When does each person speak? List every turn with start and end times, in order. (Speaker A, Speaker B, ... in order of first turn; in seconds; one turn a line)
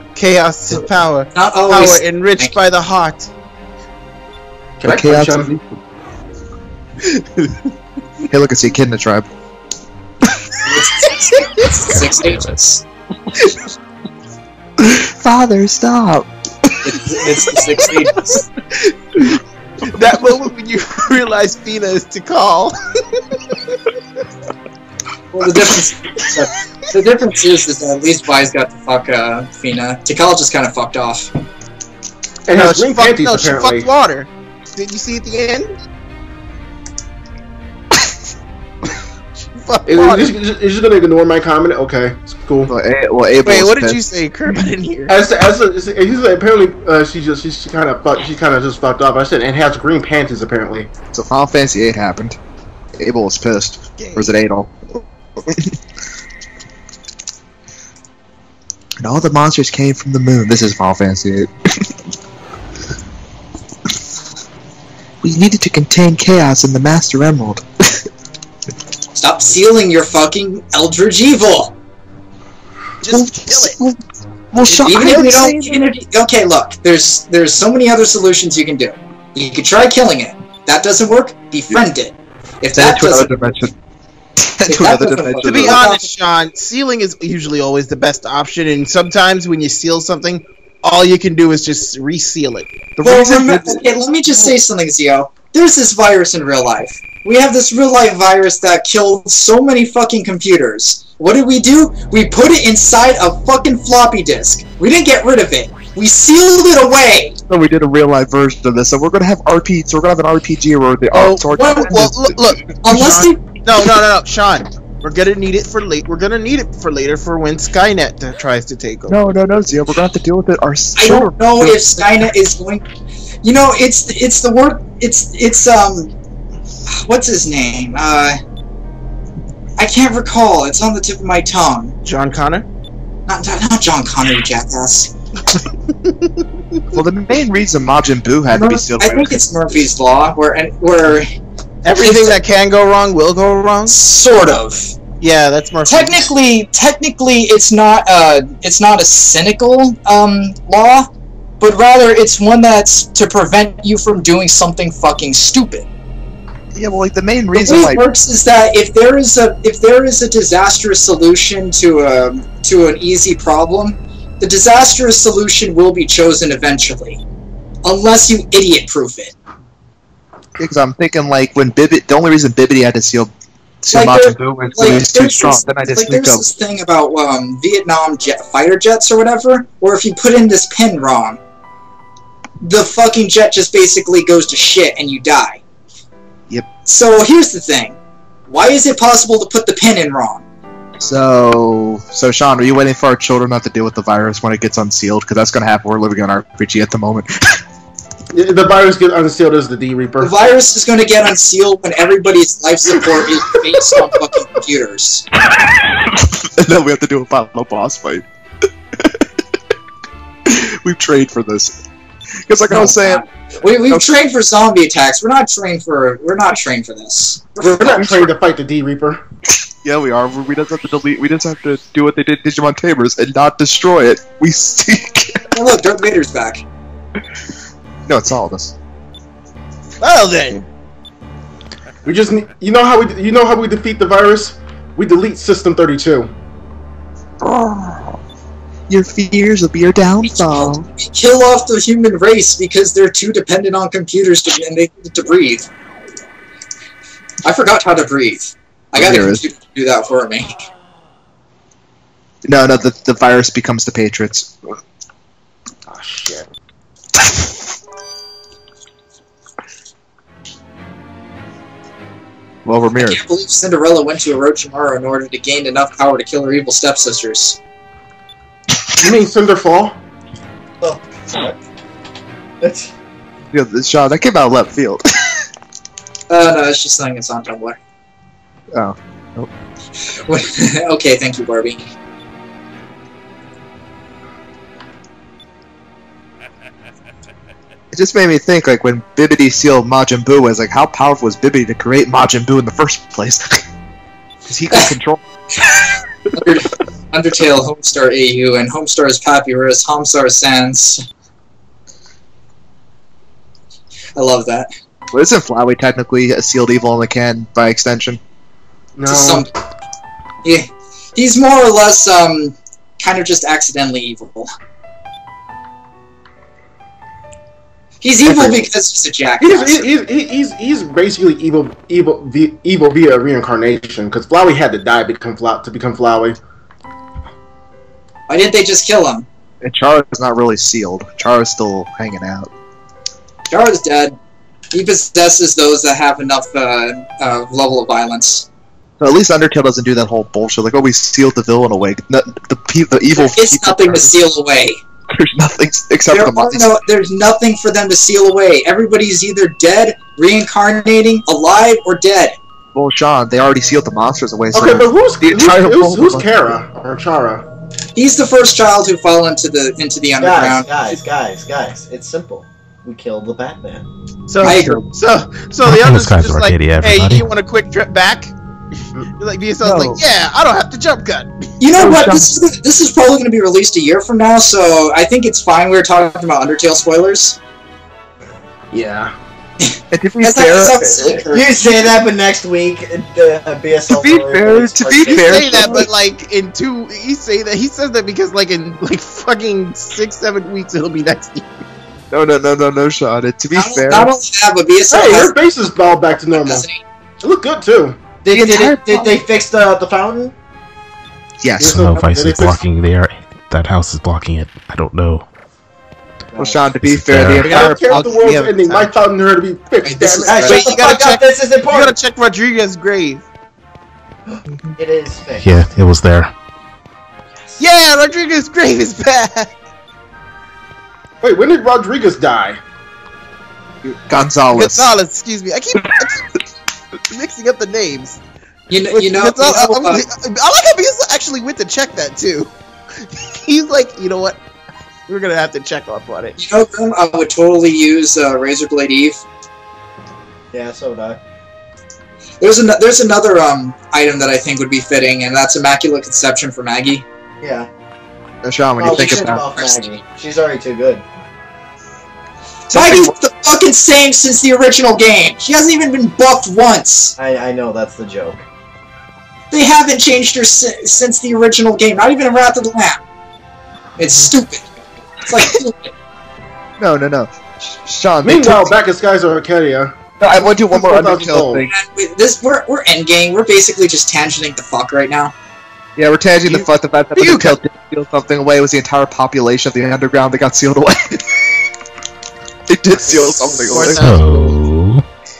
Speaker A: 0.1-3.3
Speaker B: 1.3-2.5
Speaker C: 4.8-5.5
Speaker D: 4.8-5.7
Speaker A: 7.0-7.7
Speaker D: 8.3-9.3
Speaker B: 10.6-12.8
Speaker E: 11.9-12.5
Speaker D: 14.8-16.8
Speaker B: 16.8-18.4
Speaker A: 18.1-22.8
Speaker B: 25.3-31.3
Speaker C: 32.5-33.9
Speaker A: 32.5-35.7
Speaker A: 39.5-40.3
Speaker C: 39.9-42.7
Speaker D: 42.7-44.0
Speaker A: 43.4-45.1
Speaker C: 45.1-50.9
Speaker D: 51.1-52.4
Speaker D: 53.0-55.7
Speaker A: 54.0-54.4
Speaker D: 59.0-61.9
Speaker D: 65.2-68.0
Speaker B: 69.1-71.7
Speaker A: 73.0-73.8
Speaker D: 73.0-74.0
Speaker D: 74.5-75.8
Speaker A: 74.7-75.2
Speaker B: 74.8-83.3
Speaker D: 82.7-83.7
Speaker D: 84.4-85.8
Speaker B: 84.7-86.1
Speaker A: 85.4-92.8
Speaker D: 93.0-93.8
Speaker B: 93.0-107.4
Speaker D: 107.5-112.5
Speaker A: 111.2-119.2
Speaker B: 111.5-111.9
Speaker B: 112.8-113.5
Speaker D: 119.1-122.0
Speaker B: 121.0-122.8
Speaker B: 123.4-126.1
Speaker B: 126.9-128.4
Speaker B: 129.8-131.9
Speaker A: 132.0-132.7
Speaker B: 133.3-135.1
Speaker A: 136.0-136.8
Speaker D: 136.9-139.4
Speaker B: 138.5-141.3
Speaker A: 141.8-144.0
Speaker B: 141.9-142.3
Speaker B: 143.9-145.0
Speaker A: 145.2-146.2
Speaker B: 145.8-155.9
Speaker D: 156.7-158.0
Speaker B: 157.5-167.2
Speaker B: 167.8-169.3
Speaker D: 170.6-173.3
Speaker D: 173.8-176.5
Speaker B: 173.9-181.4
Speaker B: 182.6-185.6
Speaker B: 186.8-188.0
Speaker B: 188.5-190.4
Speaker D: 191.0-197.6
Speaker C: 198.3-200.4
Speaker B: 200.2-205.2
Speaker D: 205.6-208.2
Speaker D: 209.0-209.2
Speaker D: 210.4-211.8
Speaker D: 212.5-213.2
Speaker B: 212.7-218.1
Speaker C: 217.6-219.2
Speaker D: 217.8-218.3
Speaker D: 219.5-225.4
Speaker B: 225.5-226.6
Speaker D: 228.1-228.7
Speaker A: 230.0-230.7
Speaker C: 232.0-236.3
Speaker D: 237.4-238.2
Speaker D: 238.9-240.8
Speaker B: 240.2-245.7
Speaker B: 247.4-250.7
Speaker D: 248.9-249.4
Speaker D: 252.4-254.6
Speaker C: 255.9-256.5
Speaker D: 262.6-263.2
Speaker B: 263.0-267.6
Speaker C: 269.0-269.9
Speaker F: 270.8-271.6
Speaker F: 272.6-272.9
Speaker D: 273.5-275.0
Speaker B: 276.3-277.8
Speaker D: 278.7-279.5
Speaker B: 280.1-281.8
Speaker D: 287.9-293.6
Speaker D: 294.5-295.2
Speaker B: 295.6-301.0
Speaker B: 304.1-304.7
Speaker D: 305.1-308.2
Speaker C: 308.9-309.5
Speaker B: 309.1-309.5
Speaker B: 310.4-314.5
Speaker B: 318.0-319.8
Speaker D: 318.3-318.6
Speaker C: 319.4-326.4
Speaker B: 328.3-329.2
Speaker D: 329.6-332.5
Speaker B: 333.5-334.1
Speaker B: 334.7-338.5
Speaker D: 339.0-344.1
Speaker B: 343.2-344.8
Speaker D: 345.1-346.7
Speaker B: 346.1-352.4
Speaker D: 352.7-356.5
Speaker C: 354.5-357.4
Speaker B: 357.9-360.7
Speaker F: 360.2-363.9
Speaker A: 364.3-368.3
Speaker D: 364.4-364.8
Speaker B: 364.4-364.8
Speaker E: 365.6-367.3
Speaker A: 369.1-371.5
Speaker D: 369.6-370.0
Speaker B: 371.6-377.4
Speaker D: 371.7-372.3
Speaker C: 378.7-379.1
Speaker D: 379.9-381.0
Speaker B: 380.2-381.9
Speaker F: 381.0-385.9
Speaker D: 383.9-385.9
Speaker A: 385.1-391.5
Speaker D: 392.1-394.1
Speaker B: 393.5-395.3
Speaker C: 394.9-396.7
Speaker B: 396.4-396.8
Speaker C: 397.2-398.0
Speaker F: 398.2-400.3
Speaker D: 398.3-399.2
Speaker D: 401.4-401.8
Speaker C: 401.6-402.6
Speaker E: 401.7-405.2
Speaker F: 406.3-406.7
Speaker D: 406.4-407.9
Speaker E: 406.9-407.5
Speaker C: 407.4-410.6
Speaker A: 407.4-409.1
Speaker B: 409.8-410.8
Speaker F: 410.2-412.0
Speaker A: 410.5-413.2
Speaker F: 414.3-415.6
Speaker E: 415.4-416.3
Speaker F: 417.4-417.6
Speaker A: 417.6-419.5
Speaker C: 421.2-422.6
Speaker D: 423.8-424.9
Speaker A: 424.5-426.4
Speaker A: 427.1-428.2
Speaker B: 428.7-430.0
Speaker A: 428.9-434.4
Speaker A: 435.1-436.4
Speaker B: 436.4-439.2
Speaker F: 440.5-441.2
Speaker B: 442.4-447.0
Speaker F: 447.4-447.7
Speaker D: 448.4-449.4
Speaker F: 448.8-451.0
Speaker B: 448.8-450.0
Speaker B: 452.7-457.1
Speaker D: 452.7-453.1
Speaker F: 457.2-458.4
Speaker B: 459.5-463.0
Speaker B: 464.0-464.6
Speaker B: 465.2-465.9
Speaker D: 466.8-468.8
Speaker C: 468.2-470.0
Speaker D: 470.2-471.7
Speaker C: 470.7-471.6
Speaker B: 471.7-475.3
Speaker D: 476.0-481.5
Speaker A: 476.4-477.6
Speaker D: 482.7-484.1
Speaker A: 483.2-484.6
Speaker E: 483.9-485.0